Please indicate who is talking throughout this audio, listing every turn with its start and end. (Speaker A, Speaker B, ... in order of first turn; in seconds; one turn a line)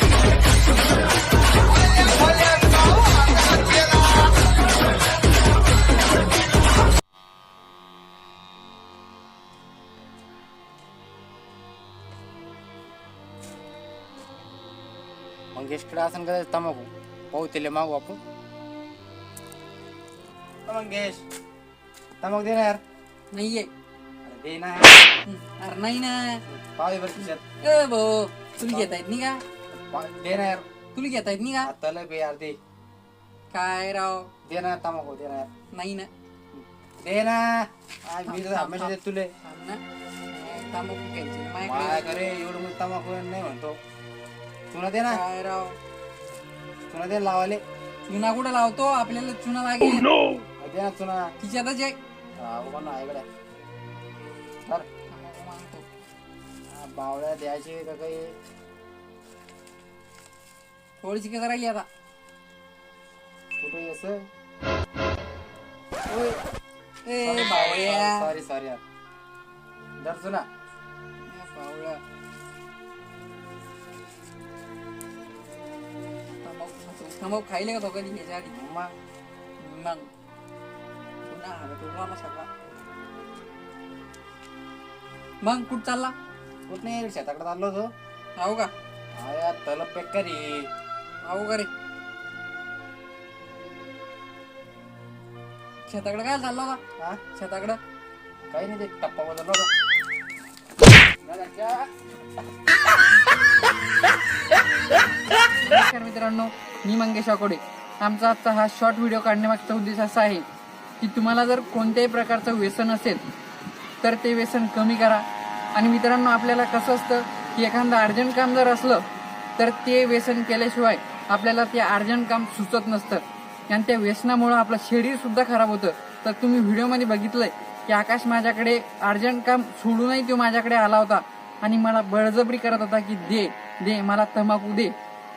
Speaker A: 2.0-4.2
Speaker B: 15.6-18.2
Speaker B: 20.7-21.2
Speaker B: 22.2-22.8
Speaker C: 23.3-23.7
Speaker B: 24.2-25.0
Speaker C: 25.2-26.4
Speaker B: 26.5-27.4
Speaker C: 27.6-29.4
Speaker B: 28.7-29.0
Speaker B: 29.7-30.7
Speaker C: 30.9-31.7
Speaker B: 31.6-32.6
Speaker C: 33.5-34.3
Speaker B: 34.5-35.5
Speaker C: 35.7-36.1
Speaker B: 36.5-39.3
Speaker C: 38.3-42.1
Speaker B: 41.6-43.8
Speaker B: 44.7-45.2
Speaker C: 45.1-45.8
Speaker B: 46.9-47.6
Speaker C: 48.1-50.2
Speaker B: 50.6-51.3
Speaker C: 51.4-52.0
Speaker B: 52.4-53.3
Speaker C: 55.1-55.9
Speaker B: 56.7-58.4
Speaker C: 61.0-61.9
Speaker B: 63.6-64.3
Speaker C: 66.1-66.4
Speaker C: 67.0-68.3
Speaker B: 67.2-68.8
Speaker B: 70.0-70.5
Speaker C: 71.3-72.0
Speaker C: 76.4-78.5
Speaker B: 78.5-78.9
Speaker C: 79.6-80.1
Speaker C: 81.3-82.5
Speaker C: 85.4-86.2
Speaker B: 86.7-87.9
Speaker C: 88.4-88.7
Speaker B: 89.2-90.7
Speaker C: 91.3-91.7
Speaker C: 95.9-96.8
Speaker C: 97.3-97.8
Speaker B: 98.5-99.7
Speaker B: 101.2-101.9
Speaker C: 105.4-110.5
Speaker C: 111.0-113.2
Speaker C: 114.0-119.0
Speaker C: 119.6-135.0